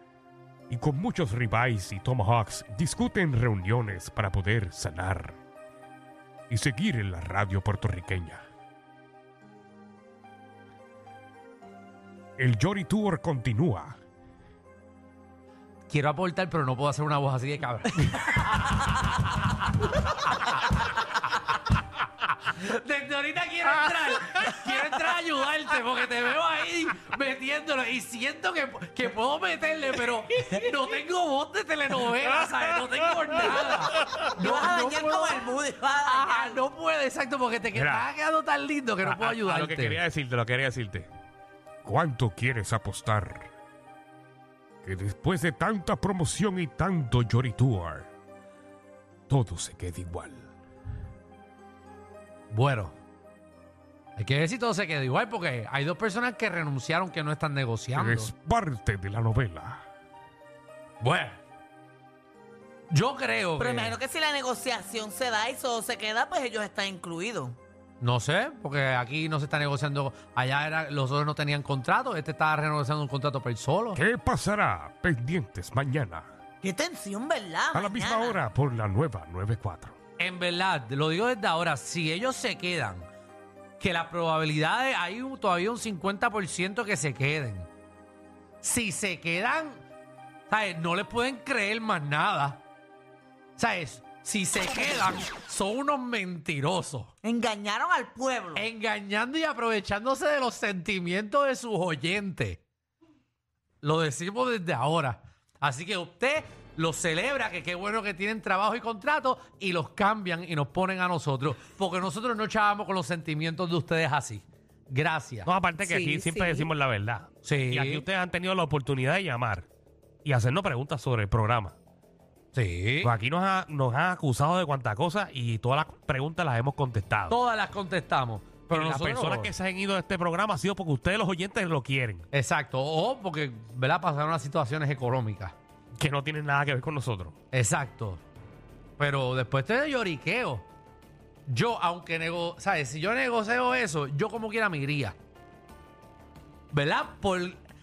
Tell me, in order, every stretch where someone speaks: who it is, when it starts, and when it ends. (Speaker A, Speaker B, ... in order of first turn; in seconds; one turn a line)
Speaker A: 0.7-5.4
Speaker A: 6.5-8.4
Speaker A: 12.4-14.0
Speaker B: 15.9-18.9
Speaker B: 22.2-40.0
Speaker C: 34.3-36.6
Speaker A: 37.8-38.0
Speaker A: 39.0-41.1
Speaker A: 41.8-43.5
Speaker A: 44.8-48.1
Speaker A: 49.3-50.5
Speaker B: 52.5-53.0
Speaker B: 54.2-58.3
Speaker A: 58.0-59.8
Speaker B: 61.0-61.4
Speaker B: 62.9-64.0
Speaker C: 63.6-67.6
Speaker B: 68.0-74.0
Speaker A: 74.0-76.3
Speaker C: 76.6-78.4
Speaker A: 77.7-80.0
Speaker B: 80.2-83.1
Speaker B: 83.8-87.7
Speaker B: 88.6-89.8
Speaker B: 90.5-92.6
Speaker B: 93.6-97.1
Speaker C: 97.2-98.7
Speaker B: 98.5-102.6
Speaker B: 103.8-115.5
Speaker A: 115.5-119.7
Speaker C: 115.8-116.7
Speaker B: 117.4-118.0
Speaker A: 120.2-121.8
Speaker B: 122.5-123.1
Speaker A: 123.0-127.3
Speaker B: 127.3-129.5
Speaker A: 128.7-132.2
Speaker B: 132.3-135.6
Speaker A: 136.0-137.3
Speaker B: 137.5-138.2
Speaker B: 139.0-140.6
Speaker B: 141.5-145.2
Speaker B: 146.7-147.6